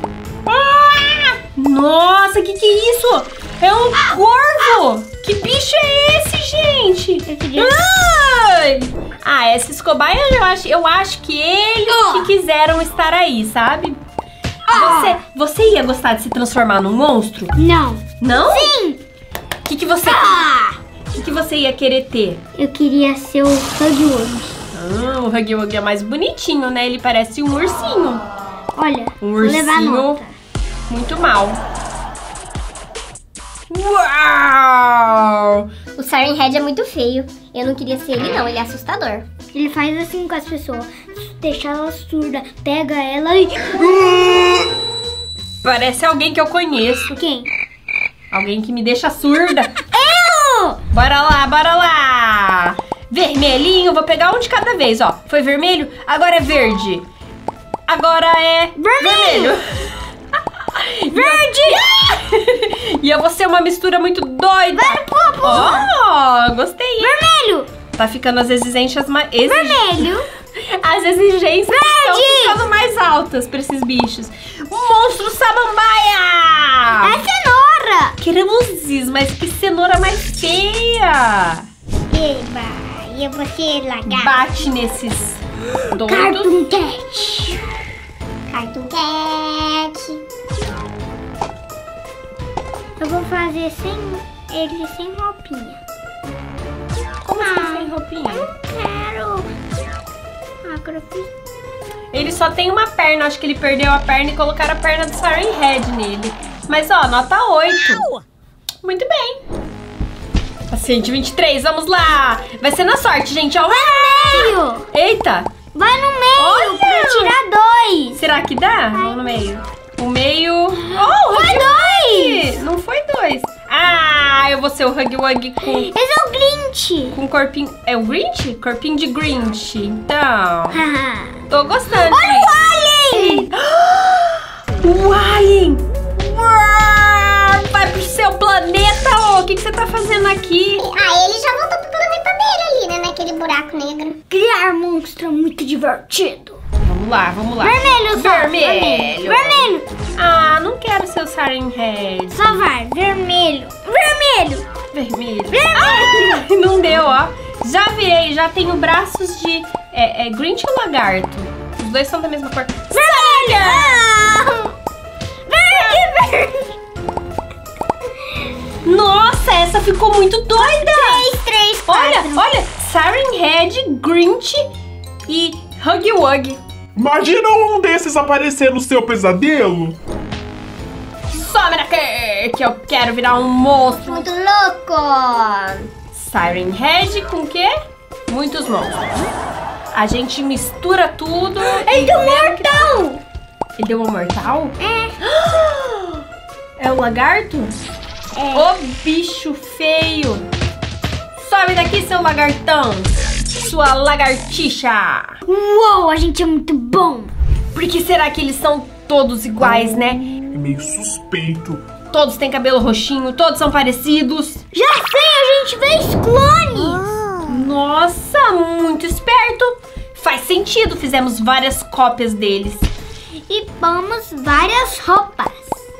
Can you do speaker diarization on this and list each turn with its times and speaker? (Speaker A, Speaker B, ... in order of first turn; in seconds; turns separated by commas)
Speaker A: 0.5-14.0, Speaker B: 7.3-7.8, Speaker B: 11.9-12.3, Speaker B: 14.7-15.2, Speaker A: 14.7-17.5, Speaker B: 17.5-19.0, Speaker A: 18.2-18.7, Speaker A: 19.6-20.5, Speaker B: 20.0-20.8, Speaker A: 21.1-22.4, Speaker B: 22.5-24.5, Speaker A: 24.7-28.2, Speaker B: 28.8-30.3, Speaker A: 29.2-30.2, Speaker A: 30.9-31.6, Speaker A: 33.7-35.6, Speaker C: 36.0-39.2, Speaker B: 39.5-44.7, Speaker A: 45.6-47.2, Speaker B: 47.1-47.5, Speaker A: 48.3-49.7, Speaker B: 49.9-50.8, Speaker A: 50.9-57.0, Speaker A: 57.9-59.9, Speaker B: 58.8-59.6, Speaker A: 60.7-67.2, Speaker B: 61.1-62.1, Speaker B: 64.7-65.9, Speaker B: 67.0-67.7, Speaker A: 68.0-70.0, Speaker B: 69.5-70.3, Speaker A: 70.5-77.2, Speaker B: 71.7-72.6, Speaker B: 77.0-78.2, Speaker A: 78.2-81.7, Speaker B: 82.1-84.5, Speaker A: 84.0-86.5, Speaker B: 86.0-87.7, Speaker C: 88.5-90.2, Speaker B: 93.0-95.8, Speaker A: 97.2-98.5, Speaker B: 97.4-99.5, Speaker B: 100.6-101.3, Speaker A: 102.1-108.1, Speaker A: 108.8-109.4, Speaker A: 110.7-115.5, Speaker B: 113.7-114.8, Speaker B: 115.7-118.2, Speaker A: 116.4-117.4, Speaker A: 118.1-125.9, Speaker B: 118.9-119.4, Speaker B: 120.8-122.5, Speaker B: 125.6-127.2, Speaker A: 127.1-130.8, Speaker B: 130.7-133.5, Speaker A: 131.5-132.6, Speaker A: 133.1-140.8, Speaker C: 140.8-144.2, Speaker B: 144.3-146.6, Speaker A: 146.8-152.6, Speaker B: 147.6-149.9, Speaker B: 152.3-154.7, Speaker A: 154.9-164.0, Speaker B: 155.5-156.4, Speaker B: 162.9-164.7, Speaker B: 165.5-166.7, Speaker A: 168.8-171.2, Speaker B: 170.5-172.5, Speaker A: 171.9-174.7, Speaker A: 175.3-176.6, Speaker D: 176.9-180.0, Speaker A: 181.3-184.3, Speaker C: 184.1-185.9, Speaker A: 186.1-187.7, Speaker A: 188.3-189.1, Speaker A: 189.9-192.9, Speaker B: 191.6-193.2, Speaker A: 193.8-196.2, Speaker B: 194.8-195.2, Speaker A: 196.8-197.7, Speaker B: 198.3-198.7, Speaker A: 198.5-200.4, Speaker A: 201.4-205.4, Speaker B: 205.4-207.3, Speaker A: 207.7-210.2, Speaker D: 210.5-211.8, Speaker A: 212.1-214.6, Speaker B: 214.7-217.0, Speaker A: 217.4-222.9, Speaker B: 223.5-225.8